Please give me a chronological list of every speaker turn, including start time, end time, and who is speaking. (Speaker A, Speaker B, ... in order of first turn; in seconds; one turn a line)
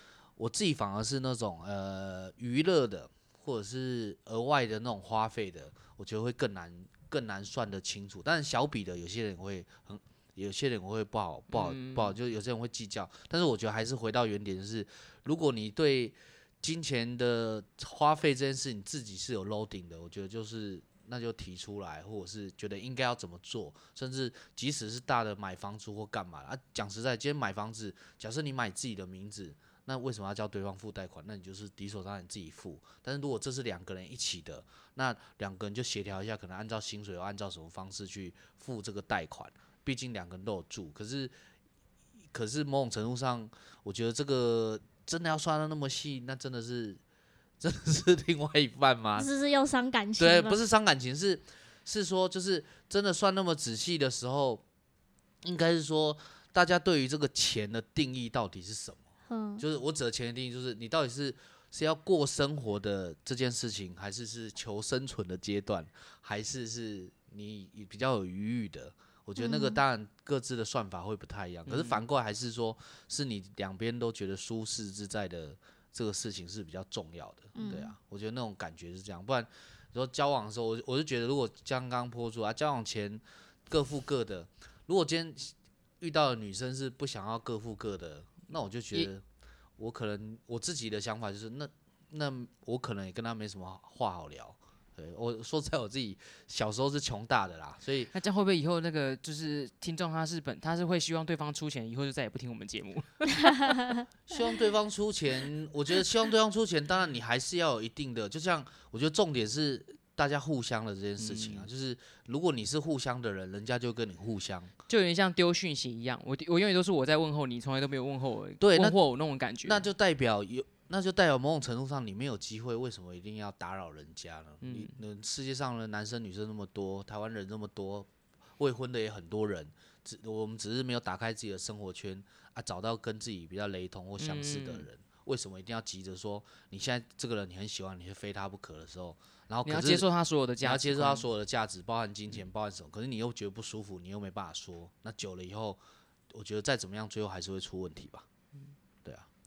Speaker A: 0.4-41.3
Speaker B: 11.5-12.1
Speaker A: 42.3-47.0
Speaker A: 47.6-49.3
Speaker C: 49.2-50.6
Speaker A: 50.2-54.6
Speaker A: 55.4-59.0
Speaker C: 59.3-59.6
Speaker A: 59.6-89.2
Speaker C: 69.4-69.8
Speaker B: 71.7-72.0
Speaker C: 77.5-77.9
Speaker A: 89.8-98.1
Speaker B: 98.1-103.6
Speaker C: 103.4-104.0
Speaker A: 104.3-114.7
Speaker B: 111.2-111.7
Speaker B: 114.9-119.9
Speaker A: 118.6-119.0
Speaker A: 119.6-140.1
Speaker B: 124.6-125.0
Speaker B: 134.2-134.8
Speaker B: 139.6-141.3
Speaker A: 140.6-145.8
Speaker A: 146.3-148.2